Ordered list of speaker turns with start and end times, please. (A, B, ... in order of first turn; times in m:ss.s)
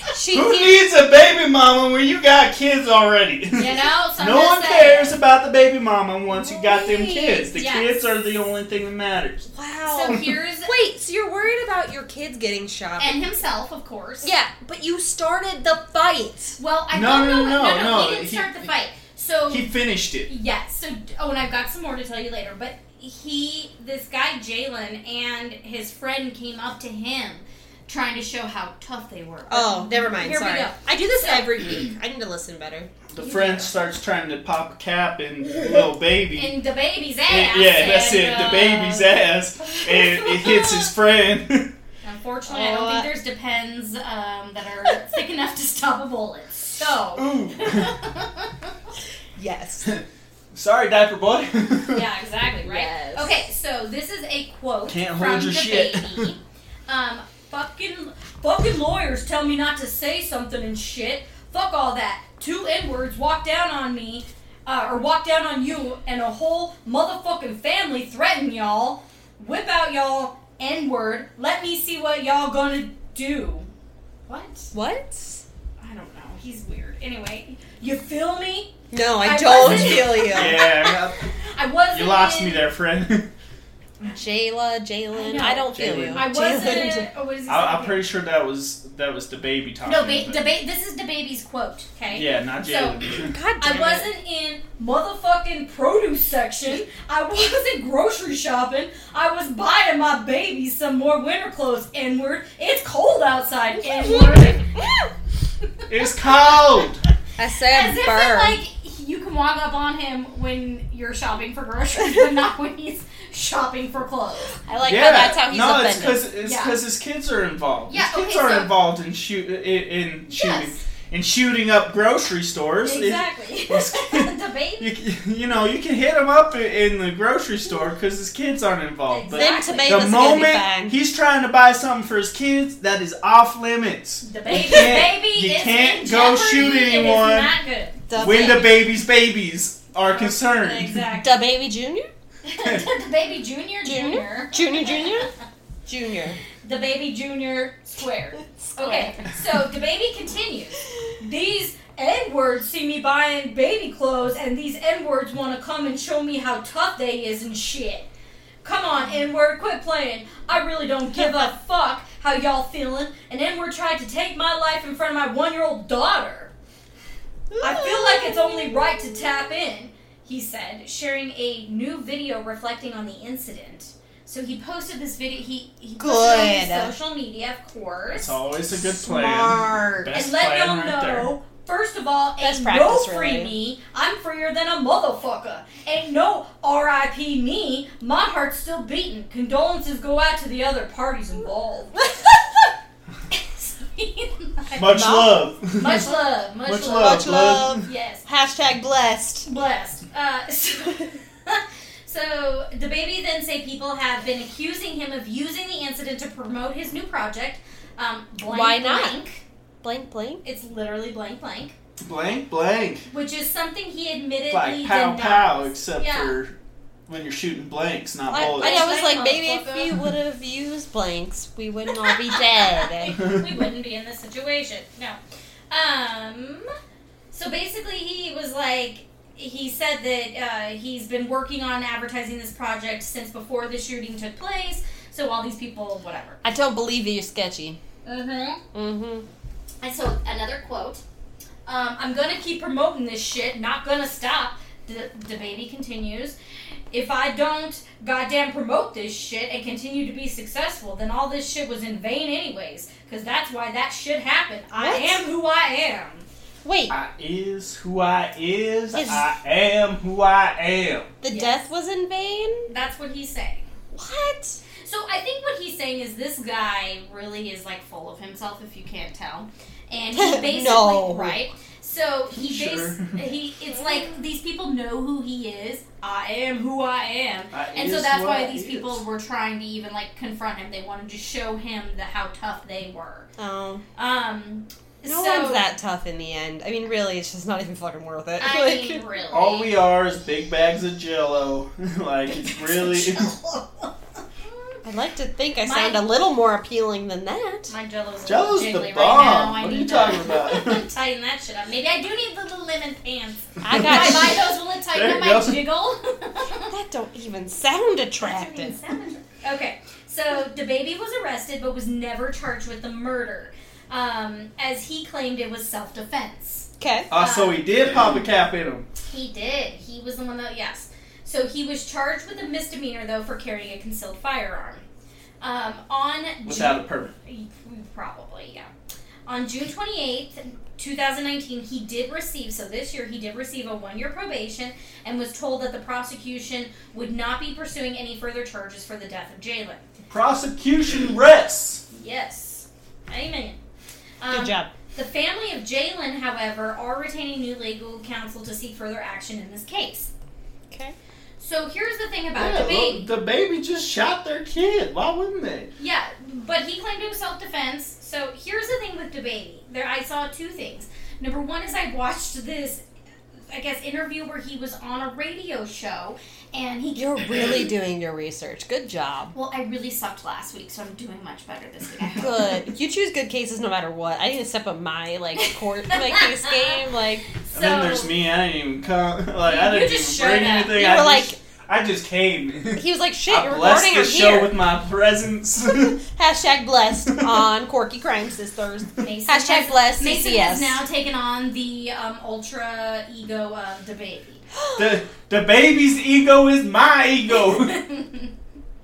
0:00.1-0:00.8 A
0:00.3-0:09.5 B
0:03.6-0:05.2 C
0:06.3-0:07.5 A
0:07.5-0:08.0 C
0:09.5-0:13.4 A
0:09.9-0:10.7 C
0:13.0-0:14.3 C
0:14.2-0:16.6 A
0:16.6-0:19.7 C
0:16.9-0:18.7 B
0:19.5-0:20.3 B
0:20.3-0:31.8 C
0:29.5-0:32.9 A
0:33.1-0:36.6 B
0:33.2-0:33.8 C
0:36.4-0:40.9 C
0:37.3-0:41.7 B
0:42.0-0:48.7 C
0:42.5-0:43.1 A
0:47.2-0:47.9 B
0:49.4-0:49.9 A
0:49.8-0:52.0 B
0:51.9-1:13.7 C
0:52.6-0:53.3 A
0:54.9-0:56.3 B
1:14.3-1:14.7 C
1:14.7-1:15.4 A
1:15.8-1:22.7 C
1:18.9-1:20.6 A
1:19.6-1:21.2 B
1:21.9-1:23.3 B
1:24.0-1:27.1 A
1:25.1-1:28.0 C
1:25.7-1:26.4 B
1:27.5-1:30.5 B
1:29.8-1:33.0 C
1:32.1-1:33.4 B
1:33.2-1:34.1 A
1:33.6-1:44.8 C
1:43.9-1:44.9 A
1:45.9-1:47.0 B
1:47.4-1:48.6 A
1:47.7-1:54.7 C
1:54.7-1:56.2 A
1:54.8-2:17.5 B
1:56.4-1:56.8 C
1:57.9-1:58.7 C
2:00.3-2:00.8 C
2:02.8-2:04.9 C
2:09.1-2:10.4 C
2:09.3-2:11.0 A
2:14.2-2:18.7 C
2:18.1-2:18.7 A
2:18.2-2:21.0 B
2:20.1-2:21.3 C
2:21.2-2:22.1 A
2:22.4-2:25.3 C
2:23.8-2:25.3 A
2:25.9-2:26.4 A
2:26.6-2:38.1 C
2:28.6-2:29.3 A
2:38.6-2:46.5 C
2:47.5-2:49.0 A
2:47.6-2:58.4 C
2:56.0-2:56.9 A
2:58.1-3:01.3 B
2:58.8-3:00.1 A
3:00.1-3:12.4 C
3:02.4-3:03.5 A
3:13.3-3:15.2 C
3:14.8-3:16.1 B
3:14.9-3:15.4 A
3:15.7-3:18.2 C
3:16.7-3:17.8 B
3:16.9-3:19.5 A
3:19.4-3:29.4 C
3:28.4-3:29.2 A
3:29.8-3:30.4 A
3:30.4-3:31.8 C
3:32.0-3:33.1 B
3:33.1-3:36.4 C
3:34.5-3:36.5 B
3:37.1-3:38.9 B
3:38.3-3:43.2 A
3:38.4-3:40.0 C
3:42.5-3:45.2 C
3:45.7-3:46.7 C
3:47.3-3:56.4 C
3:56.4-3:57.8 A
3:58.0-3:58.6 C
3:58.7-3:59.3 A
3:59.8-4:01.0 C
4:01.7-4:06.4 C
4:06.9-4:16.3 C
4:14.8-4:15.2 A
4:16.6-4:16.9 A
4:16.9-4:21.1 B
4:18.9-4:19.3 A
4:21.2-4:22.7 A
4:21.3-4:21.7 C
4:22.7-4:23.8 C
4:23.9-4:24.6 A
4:24.8-4:43.3 C
4:30.2-4:31.4 A
4:32.4-4:33.2 B
4:33.7-4:34.2 A
4:37.5-4:39.0 B
4:43.4-4:43.8 A
4:44.0-4:45.6 C
4:45.0-4:49.0 A
4:48.4-4:49.8 C
4:49.3-4:53.4 B
4:52.3-4:54.8 C
4:54.8-4:57.7 A
4:55.6-4:56.0 C
4:57.7-5:06.7 C
4:58.3-5:00.9 B
5:03.6-5:04.4 A
5:03.7-5:05.7 B
5:06.7-5:08.8 A
5:08.2-5:17.9 C
5:16.8-5:17.1 A
5:17.1-5:18.9 B
5:19.1-5:24.8 C
5:25.4-5:28.7 C
5:26.4-5:27.1 B
5:29.3-5:39.9 C
5:40.1-5:41.8 B
5:41.9-5:43.6 C
5:44.2-5:50.1 C
5:44.3-5:44.7 A
5:50.7-5:51.0 A
5:51.4-5:53.1 C
5:52.4-5:55.7 B
5:55.8-6:02.8 C
6:03.5-6:07.6 C
6:07.0-6:09.3 A
6:09.3-6:12.6 C
6:12.2-6:17.3 A
6:15.4-6:16.8 C
6:17.4-6:18.1 C
6:17.5-6:26.0 B
6:19.4-6:20.8 C
6:20.7-6:21.4 A
6:22.7-6:24.6 A
6:25.6-6:30.8 A
6:29.0-6:34.4 C
6:34.5-6:35.0 A
6:34.8-6:37.8 B
6:37.4-6:38.3 C